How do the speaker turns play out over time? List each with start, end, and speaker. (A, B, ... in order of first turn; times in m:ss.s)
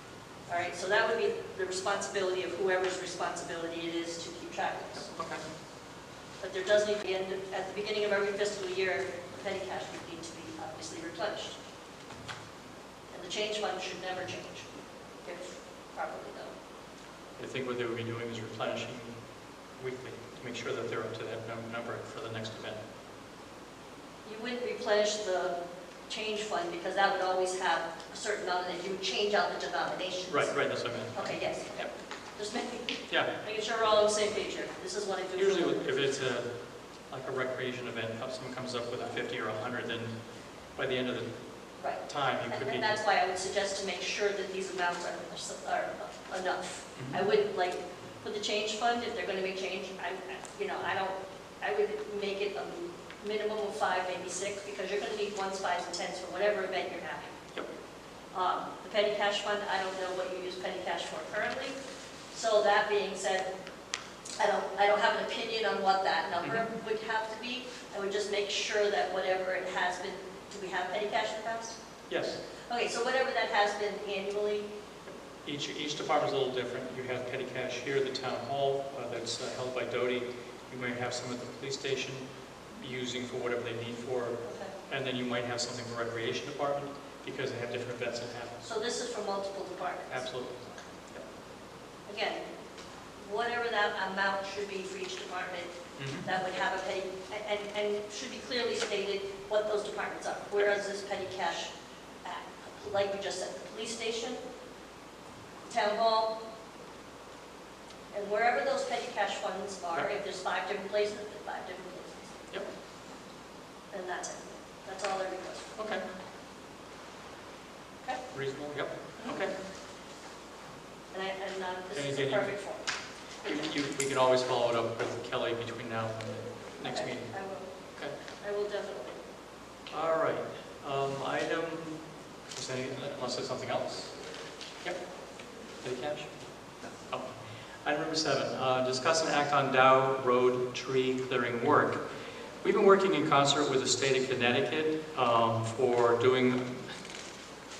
0:00.5-0:05.1 A
0:05.1-0:05.4 B
0:06.4-0:11.6 A
0:13.1-0:14.7 A
0:15.2-0:16.5 A
0:17.4-0:19.2 B
0:19.8-0:22.8 B
0:24.2-0:25.6 A
0:26.1-0:30.5 A
0:30.3-0:31.9 B
0:31.1-0:35.9 A
0:35.4-0:36.5 B
0:37.1-0:40.1 B
0:40.8-0:41.3 B
0:41.8-0:57.4 A
0:42.1-0:42.9 B
0:47.0-0:47.2 B
0:58.3-1:01.8 A
1:02.3-1:03.5 A
1:04.4-1:11.8 A
1:06.4-1:06.7 B
1:12.1-1:12.4 B
1:12.7-1:14.7 A
1:15.4-1:22.2 B
1:22.8-1:24.4 B
1:24.4-1:24.7 A
1:24.9-1:28.5 B
1:28.6-1:30.2 A
1:30.1-1:31.2 B
1:32.1-1:32.4 A
1:33.2-1:41.7 A
1:36.0-1:36.3 B
1:42.2-1:44.4 A
1:45.6-1:46.4 A
1:48.1-1:52.4 A
1:53.9-1:55.7 A
1:55.8-1:56.0 B
1:58.1-1:59.5 B
2:01.1-2:02.8 A
2:01.9-2:02.5 B
2:03.4-2:07.3 B
2:06.8-2:07.7 A
2:08.4-2:09.2 A
2:09.9-2:12.0 B
2:12.5-2:14.1 B
2:15.8-2:16.3 B
2:17.8-2:22.0 B
2:22.6-2:26.8 B